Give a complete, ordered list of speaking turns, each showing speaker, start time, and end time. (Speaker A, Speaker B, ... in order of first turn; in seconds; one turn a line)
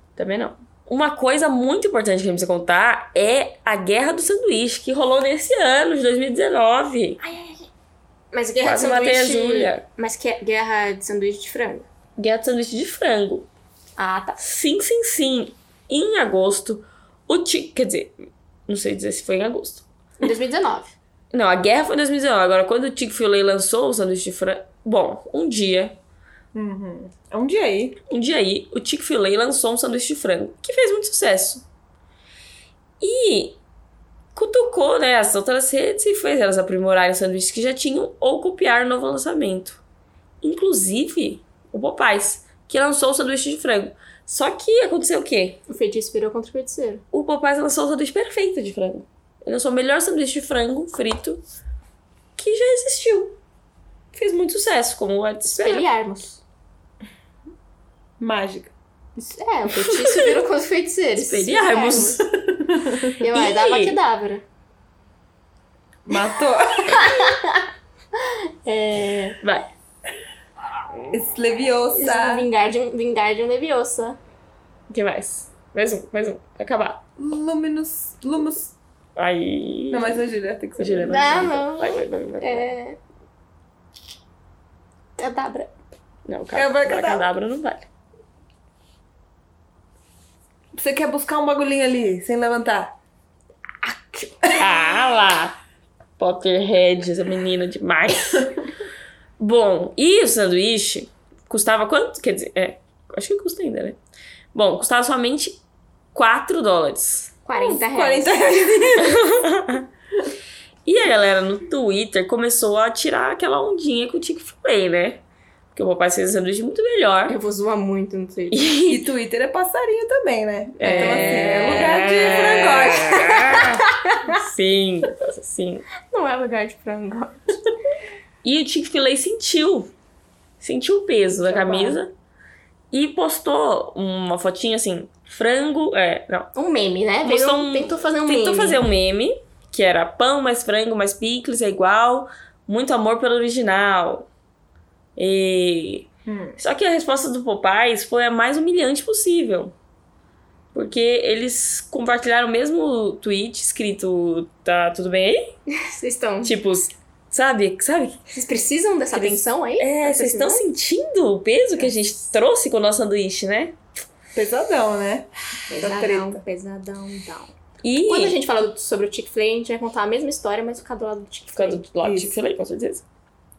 Speaker A: 0.2-7.2
Speaker B: 8.3-11.9
Speaker A: 8.6-9.8
Speaker A: 12.2-13.5
Speaker B: 14.0-14.4
Speaker A: 14.4-18.2
Speaker A: 18.7-19.9
Speaker B: 20.2-21.0
Speaker A: 21.3-26.0
Speaker C: 26.5-28.0
Speaker A: 28.1-31.6
Speaker A: 33.0-33.6
Speaker A: 34.4-39.8
Speaker A: 40.4-45.6
Speaker B: 45.7-47.0
Speaker A: 47.1-51.4
Speaker A: 52.4-53.4
Speaker A: 54.1-55.9
Speaker B: 55.5-56.4
Speaker C: 58.2-58.7
Speaker B: 59.2-62.2
Speaker A: 59.7-60.4
Speaker A: 61.2-62.3
Speaker C: 62.6-63.0
Speaker B: 63.2-64.4
Speaker A: 63.2-64.0
Speaker C: 66.1-67.2
Speaker B: 66.9-69.4
Speaker A: 69.4-69.7
Speaker C: 71.1-72.5
Speaker B: 71.9-74.2
Speaker A: 74.9-77.0
Speaker C: 77.2-78.8
Speaker A: 79.2-80.2
Speaker C: 79.9-81.5
Speaker A: 80.8-82.8
Speaker B: 81.1-83.0
Speaker B: 85.2-85.7
Speaker A: 86.3-87.9
Speaker C: 86.5-87.3
Speaker C: 90.8-93.0
Speaker B: 93.8-94.4
Speaker A: 94.5-95.6
Speaker A: 96.2-98.6
Speaker A: 99.4-104.0
Speaker A: 104.5-105.6
Speaker A: 106.1-107.4
Speaker B: 107.5-108.6
Speaker C: 107.5-109.4
Speaker A: 109.0-109.9
Speaker A: 110.9-115.2
Speaker A: 115.7-117.4
Speaker B: 117.3-118.7
Speaker A: 118.5-119.0
Speaker C: 118.9-123.5
Speaker A: 120.8-125.9
Speaker B: 120.8-124.3
Speaker B: 126.1-127.6
Speaker A: 128.4-129.9
Speaker A: 130.6-132.1
Speaker B: 131.4-132.0
Speaker A: 132.9-136.5
Speaker B: 136.6-138.8
Speaker A: 137.2-144.3
Speaker A: 145.2-146.1
Speaker C: 146.3-146.6
Speaker A: 146.6-149.7
Speaker A: 150.7-155.6
Speaker B: 155.7-156.5
Speaker A: 156.4-158.2
Speaker B: 158.3-160.6
Speaker A: 159.1-163.8
Speaker C: 164.3-166.4
Speaker B: 165.7-167.5
Speaker A: 167.8-168.4
Speaker B: 168.1-171.8
Speaker A: 171.5-173.1
Speaker C: 172.0-172.4